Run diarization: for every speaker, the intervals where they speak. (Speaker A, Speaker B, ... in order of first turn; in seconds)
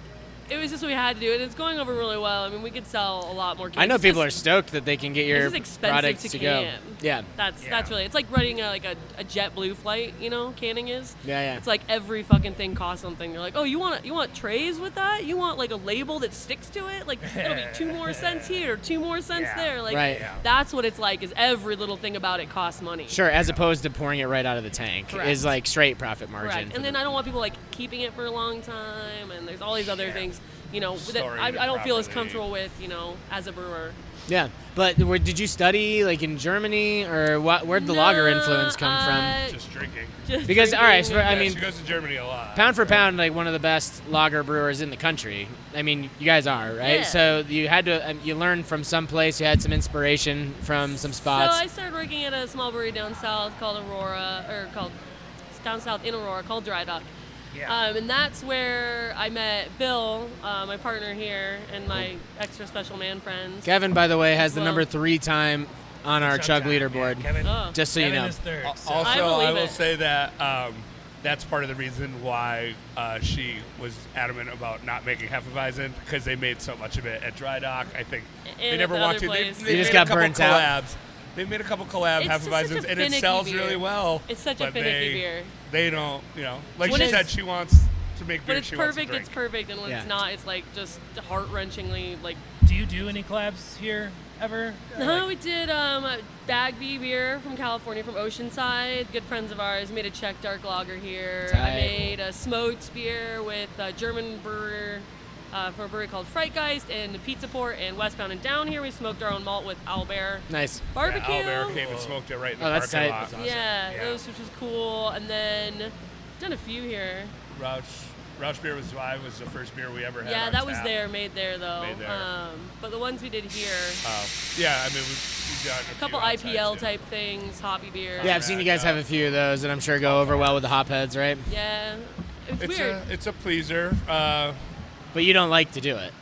Speaker A: 0.5-4.3, 5.3-23.2, 25.1-25.5, 26.4-34.0, 37.7-39.6, 40.2-41.6, 46.8-47.2, 51.3-54.9, 55.5-57.1, 57.6-63.7, 64.4-64.8, 67.4-67.8, 69.0-69.8, 78.5-80.1, 82.2-85.5, 86.8-87.3, 88.5-92.4, 95.0-111.8, 113.3-117.3, 120.2-124.0, 125.9-128.6, 131.5-133.0
Speaker B: 3.8-7.2, 11.2-11.6, 19.9-20.3, 23.1-27.0, 34.3-39.4, 40.5-41.6, 42.5-51.6, 63.6-68.4, 79.7-80.7, 101.5-102.1, 110.5-110.8, 112.6-113.3, 128.2-131.5, 135.1-136.1
Speaker C: 7.6-7.9, 17.2-18.6, 19.3-20.4, 57.5-57.8, 66.2-69.4, 86.8-87.3, 92.6-95.2, 111.7-112.2, 113.9-114.2
Speaker D: 23.3-23.6, 29.8-30.3, 30.9-32.4, 39.5-40.2, 41.2-43.0, 68.6-89.3, 111.0-113.7, 117.5-120.9, 121.8-122.3, 124.0-126.9, 128.1-129.0, 130.0-130.7, 132.6-134.6